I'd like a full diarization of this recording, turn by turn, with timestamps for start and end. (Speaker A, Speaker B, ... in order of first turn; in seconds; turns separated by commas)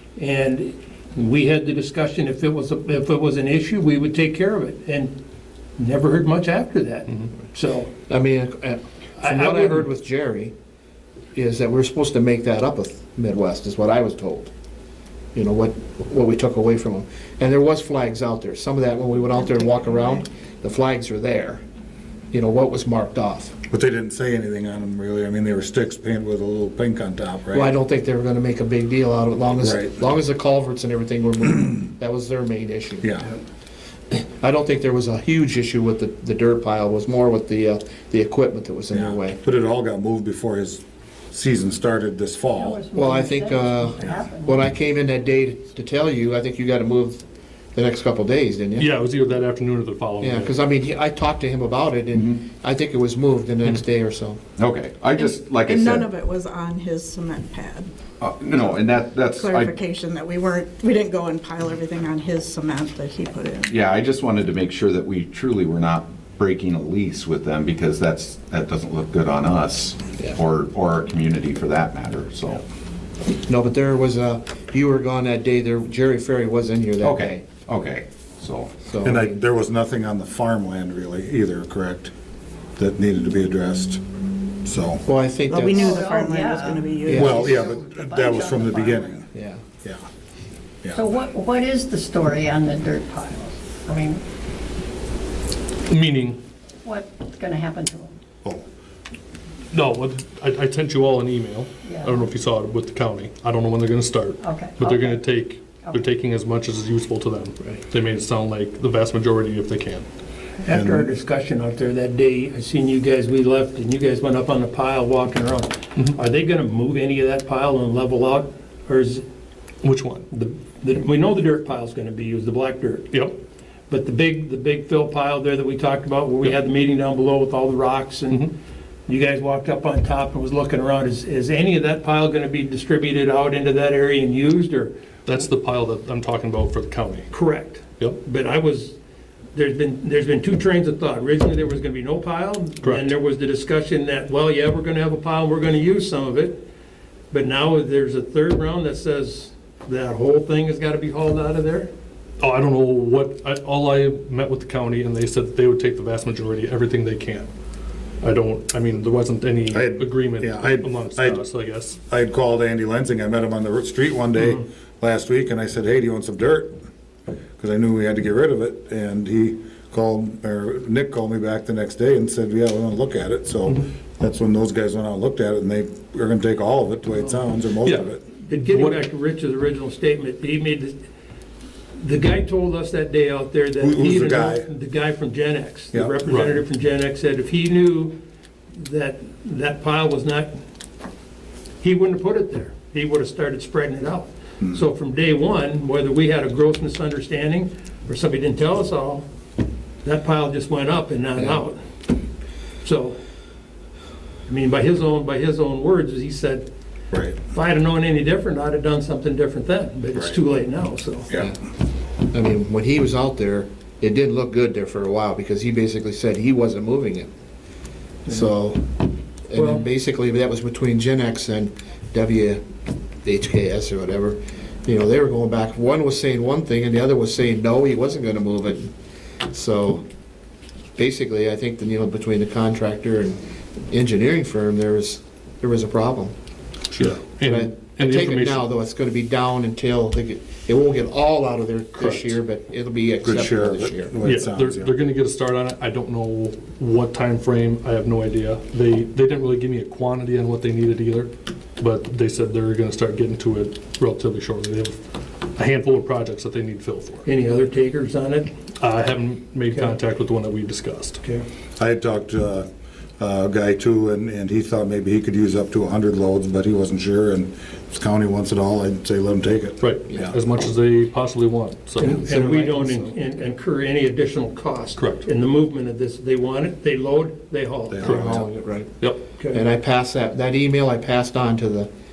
Speaker A: 0.2-5.1, Speaker A: 5.8-7.9, Speaker B: 8.1-10.5, Speaker A: 9.2-9.9, Speaker B: 11.3-14.5, Speaker B: 15.3-21.6, Speaker B: 22.3-23.6, Speaker C: 23.7-27.7, Speaker B: 27.5-33.3, Speaker C: 29.6-30.1, Speaker C: 33.0-33.3, Speaker B: 34.1-39.4, Speaker C: 38.9-42.8, Speaker D: 42.5-44.6, Speaker B: 42.9-47.2, Speaker B: 47.7-48.9, Speaker E: 48.8-50.5, Speaker B: 50.2-54.4, Speaker F: 54.6-56.2, Speaker G: 56.1-57.8, Speaker F: 58.2-59.9, Speaker G: 59.8-63.6, Speaker F: 63.6-72.6, Speaker B: 73.5-77.5, Speaker F: 77.0-78.8, Speaker B: 78.8-79.4, Speaker C: 79.0-82.1, Speaker C: 82.8-84.0, Speaker C: 84.6-85.0, Speaker B: 85.0-85.9, Speaker D: 85.8-89.3, Speaker G: 86.1-87.1, Speaker B: 87.1-87.5, Speaker C: 87.1-89.2, Speaker B: 89.3-89.6, Speaker D: 90.9-94.2, Speaker E: 95.9-96.4, Speaker D: 96.8-98.1, Speaker E: 99.7-110.1, Speaker D: 101.8-102.3, Speaker D: 104.4-105.2, Speaker D: 105.8-106.1, Speaker A: 110.6-119.2, Speaker C: 110.7-111.1, Speaker E: 119.8-120.3, Speaker A: 120.3-123.2, Speaker A: 123.9-128.5, Speaker A: 129.1-134.9, Speaker E: 135.3-137.3, Speaker A: 137.3-139.0, Speaker A: 139.5-146.6, Speaker E: 142.8-143.1, Speaker A: 147.3-151.9, Speaker E: 152.4-157.5, Speaker E: 158.2-162.0, Speaker C: 159.7-161.4, Speaker C: 162.1-166.7, Speaker C: 167.6-178.2, Speaker E: 177.8-179.0, Speaker A: 178.4-181.0, Speaker A: 182.0-188.2, Speaker C: 183.8-184.7, Speaker E: 186.3-186.6, Speaker A: 188.7-190.5, Speaker A: 191.8-199.3, Speaker A: 200.0-201.8, Speaker A: 202.8-203.2, Speaker A: 204.5-206.7, Speaker A: 207.4-211.3, Speaker B: 212.3-217.3, Speaker B: 218.3-222.6, Speaker A: 219.6-219.8, Speaker B: 223.2-228.9, Speaker B: 229.5-230.0, Speaker B: 231.0-233.4, Speaker B: 233.9-236.3, Speaker E: 236.9-238.6, Speaker B: 237.4-244.2, Speaker E: 241.9-242.4, Speaker C: 243.2-244.9, Speaker E: 244.2-257.2, Speaker A: 257.2-258.5, Speaker E: 258.8-261.2, Speaker A: 259.7-260.0, Speaker C: 261.8-262.7, Speaker C: 263.2-270.3, Speaker E: 269.8-272.2, Speaker A: 272.0-278.1, Speaker B: 272.0-273.1, Speaker E: 275.0-275.3, Speaker C: 277.9-278.5, Speaker B: 278.0-278.9, Speaker E: 278.0-278.4, Speaker B: 279.5-281.9